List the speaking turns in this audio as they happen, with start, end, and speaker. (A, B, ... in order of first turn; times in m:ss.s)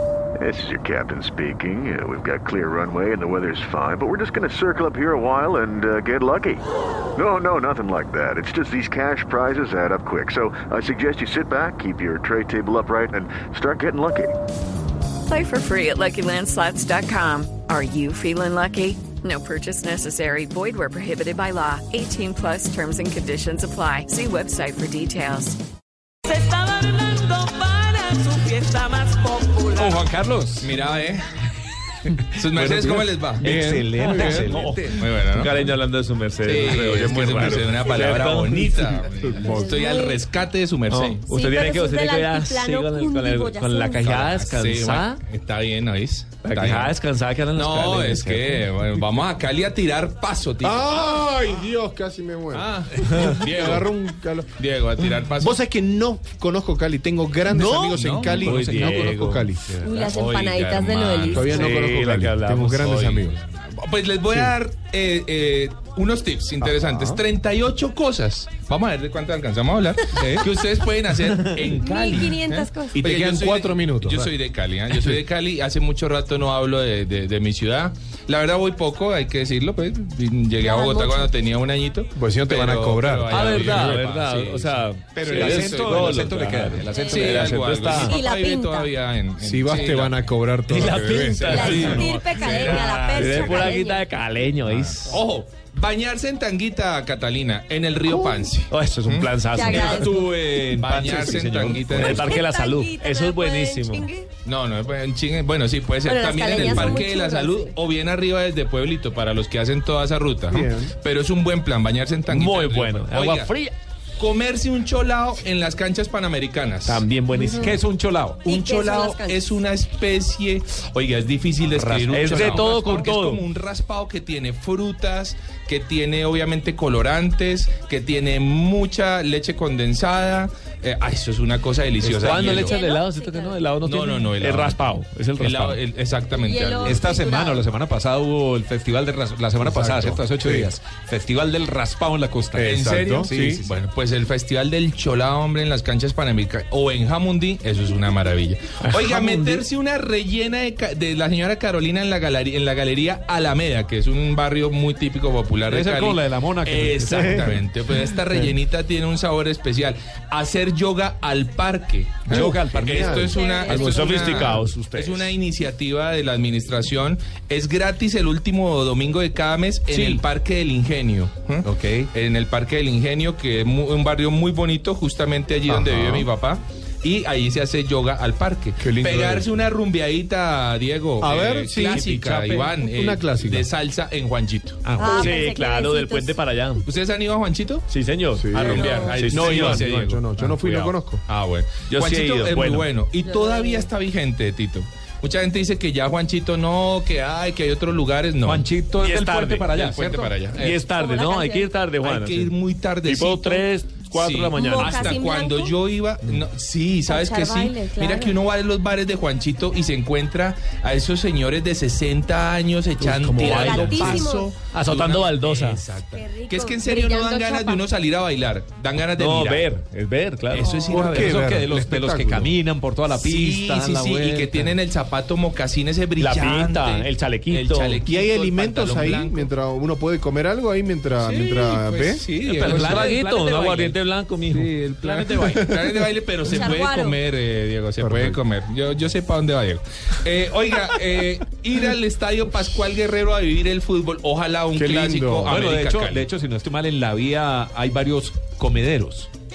0:00.4-0:14.4 A
0:15.2-0:25.6 B
0:26.5-0:29.6 C
0:29.7-0:30.7 D
0:30.6-0:31.2 E
0:32.3-0:33.4 E
0:32.4-0:35.5 D
0:33.4-0:34.6 F
0:34.3-0:34.8 G
0:34.9-0:35.7 E
0:35.4-0:39.0 G
0:36.4-0:41.2 E
0:37.0-0:37.8 D
0:39.2-0:39.6 D
0:39.4-0:40.2 H
0:40.9-0:45.2 G
0:41.3-0:44.4 H
0:44.4-0:46.9 E
0:46.4-0:48.6 G
0:47.5-0:51.0 E
0:50.6-0:54.5 F
0:52.5-0:53.9 E
0:54.6-0:55.6 E
0:55.4-0:59.8 F
0:57.9-0:58.5 E
0:58.4-0:59.4 G
0:59.8-1:01.7 E
0:59.8-1:01.7 H
1:01.3-1:03.4 F
1:01.5-1:02.8 G
1:02.8-1:30.3 E
1:04.3-1:04.5 F
1:06.6-1:07.2 F
1:10.1-1:10.4 D
1:11.8-1:13.0 H
1:13.0-1:14.3 F
1:20.6-1:21.3 H
1:22.2-1:23.7 F
1:23.3-1:28.1 G
1:25.1-1:26.8 F
1:25.2-1:27.6 D
1:26.9-1:28.9 H
1:29.4-1:32.0 F
1:30.7-1:32.0 G
1:31.2-1:33.7 E
1:31.4-1:34.0 H
1:33.1-1:35.1 G
1:34.6-1:39.9 E
1:38.7-1:44.1 G
1:39.5-1:40.3 H
1:39.7-1:42.0 D
1:40.8-1:42.4 E
1:41.9-1:44.3 H
1:44.4-1:53.5 E
1:46.0-1:47.8 H
1:50.5-1:50.9 F
1:52.3-1:53.7 G
1:54.2-1:57.0 E
1:56.8-1:57.6 G
1:57.3-1:57.8 H
1:57.5-1:58.4 D
1:58.4-1:59.6 H
1:58.4-2:12.8 E
2:01.8-2:03.4 G
2:02.4-2:02.8 D
2:12.0-2:15.7 G
2:12.1-2:12.5 D
2:12.3-2:13.7 H
2:13.8-2:17.0 E
2:16.3-2:17.6 H
2:16.8-2:23.7 D
2:19.6-2:20.7 F
2:22.5-2:23.6 F
2:22.6-3:05.1 E
2:28.9-2:29.3 D
2:35.7-2:37.6 D
2:42.3-2:44.6 F
2:42.3-2:45.3 D
2:43.3-2:44.2 H
2:43.8-2:44.8 G
2:49.9-2:50.2 D
2:55.7-2:56.3 F
2:58.8-2:59.5 F
3:01.2-3:02.1 F
3:01.9-3:02.7 G
3:02.9-3:03.7 F
3:04.8-3:06.8 G
3:05.0-3:06.4 H
3:06.8-3:07.8 E
3:07.9-3:09.1 G
3:08.4-3:11.2 F
3:08.5-3:10.2 E
3:08.7-3:09.2 H
3:09.2-3:10.8 D
3:10.8-3:18.7 E
3:11.9-3:12.9 G
3:13.2-3:13.9 H
3:18.4-3:20.4 D
3:19.0-3:19.7 G
3:19.6-3:20.8 E
3:20.5-3:22.5 G
3:20.8-3:21.7 H
3:22.0-3:39.7 E
3:23.0-3:25.1 G
3:24.5-3:25.7 H
3:27.1-3:28.4 H
3:33.0-3:34.2 D
3:33.4-3:34.5 H
3:34.7-3:35.8 G
3:36.1-3:37.8 H
3:39.2-3:40.8 G
3:40.5-3:41.4 E
3:40.5-3:44.7 D
3:40.6-3:41.1 H
3:40.9-3:42.5 F
3:43.1-3:49.5 E
3:46.2-3:48.0 G
3:48.0-3:52.2 F
3:51.2-3:53.8 E
3:52.4-3:53.9 D
3:52.5-3:55.2 G
3:54.5-3:55.7 D
3:55.2-4:06.3 E
3:55.4-3:55.9 F
3:56.4-3:57.2 H
3:58.0-3:58.4 F
4:04.7-4:05.6 F
4:05.5-4:09.3 D